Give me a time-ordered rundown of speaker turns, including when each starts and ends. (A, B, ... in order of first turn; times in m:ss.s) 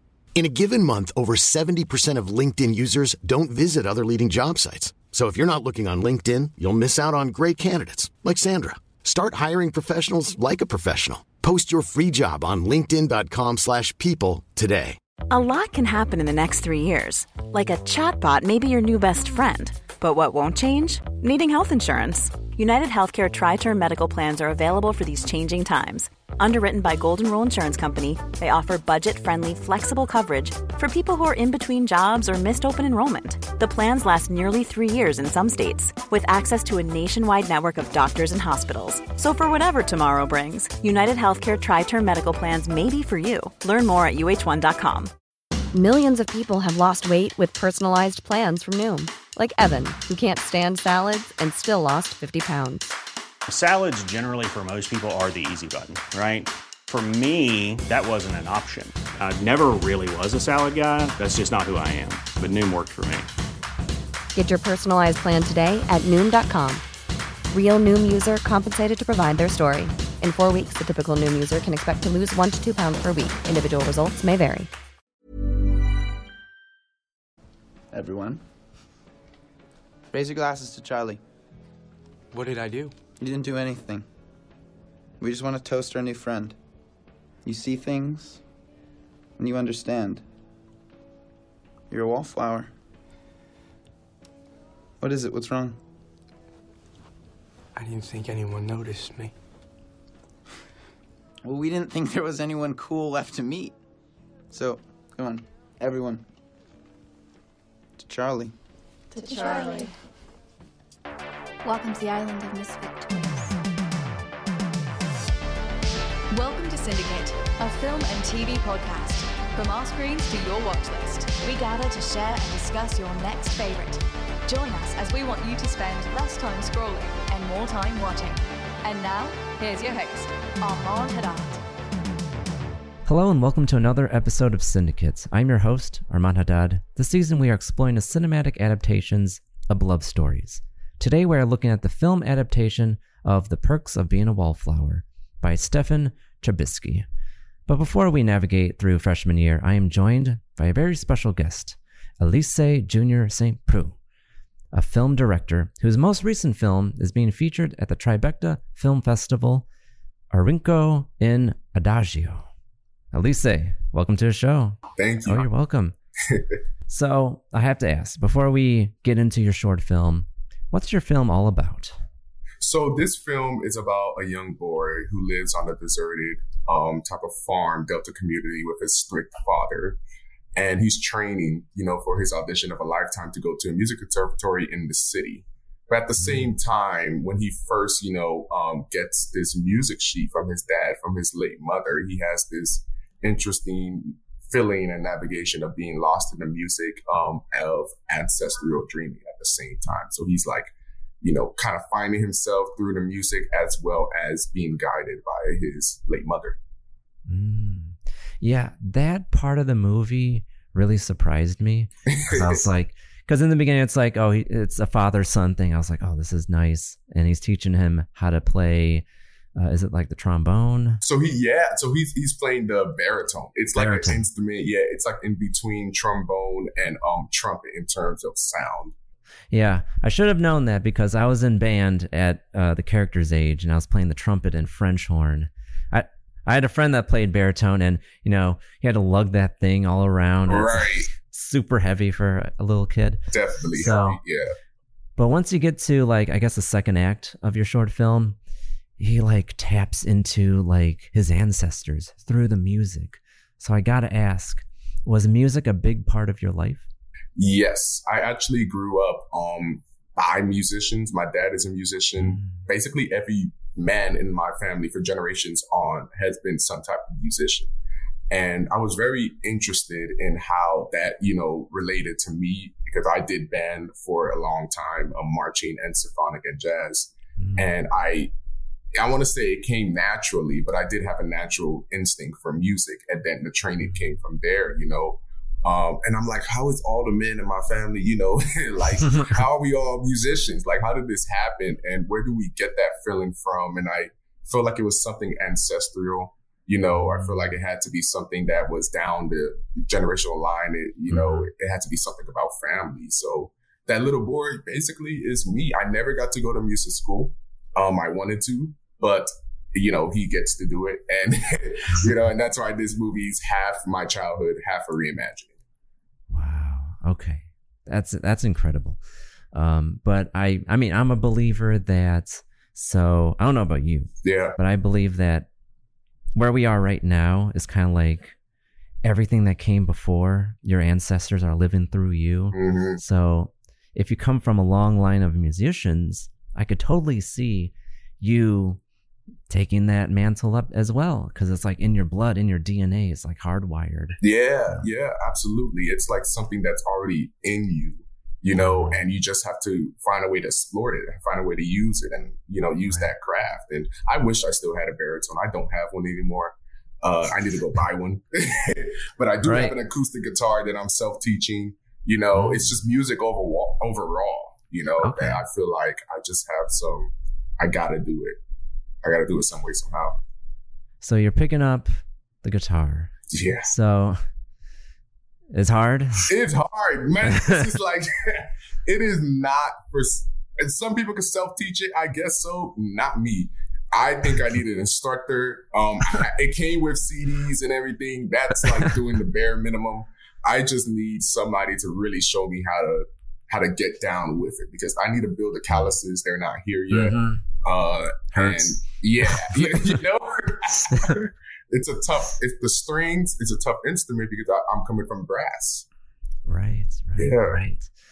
0:00.4-0:15.0 A
0:15.3-0:45.1 B
0:45.7-0:52.9 C
0:53.5-1:03.3 D
1:04.3-1:06.8 C
1:07.5-1:14.7 C
1:17.9-1:18.4 E
1:20.1-1:21.2 E
1:22.3-1:23.0 F
1:23.2-1:24.1 E
1:25.2-1:26.6 E
1:27.4-1:28.4 E
1:29.4-1:30.2 E
1:31.9-1:32.7 E
1:35.0-1:35.8 E
1:37.8-1:39.3 F
1:41.4-1:43.8 E
1:44.5-1:46.2 E
1:48.0-1:48.6 E
1:49.2-1:49.9 G
1:49.5-1:49.8 H
1:51.6-1:53.6 G
1:56.3-2:11.6 H
2:13.1-2:27.1 I
2:27.7-2:34.0 I
2:34.7-2:39.7 I
2:40.3-2:42.5 I
2:43.1-2:46.0 I
2:45.0-2:45.5 J
2:46.3-2:46.6 J
2:46.9-2:52.0 I
2:52.6-3:00.0 J
3:00.6-3:20.7 J
3:06.2-3:06.5 I
3:21.2-3:26.6 J
3:27.3-3:39.0 I
3:32.1-3:32.6 J
3:39.6-3:41.0 I
3:41.0-3:48.9 J
3:43.8-3:44.2 I
3:49.5-4:03.2 I
4:00.5-4:01.1 J
4:03.3-4:04.5 J
4:03.8-4:04.2 I
4:05.2-4:08.4 I
4:09.0-4:16.8 I
4:17.4-4:27.7 J
4:22.2-4:22.6 I
4:28.3-4:38.3 J
4:37.4-4:37.7 I
4:39.0-5:15.5 J
4:57.0-4:57.5 I
5:01.1-5:01.5 I
5:16.3-5:19.0 I
5:19.5-5:25.5 I
5:24.2-5:24.6 J
5:26.4-5:28.4 I
5:29.0-5:38.8 I
5:32.5-5:33.0 J
5:39.5-5:44.8 I
5:44.2-6:08.4 J
5:48.6-5:49.0 I
5:59.4-5:59.8 I
6:02.4-6:02.8 I
6:05.0-6:05.4 I
6:09.0-6:10.2 J
6:11.0-6:11.9 I
6:12.4-6:13.1 I
6:13.3-6:13.7 J
6:13.7-6:14.2 I
6:15.5-6:16.3 I
6:16.3-6:45.8 J
6:36.9-6:37.4 I
6:38.3-6:40.0 I
6:46.5-6:47.9 I
6:47.2-6:47.6 J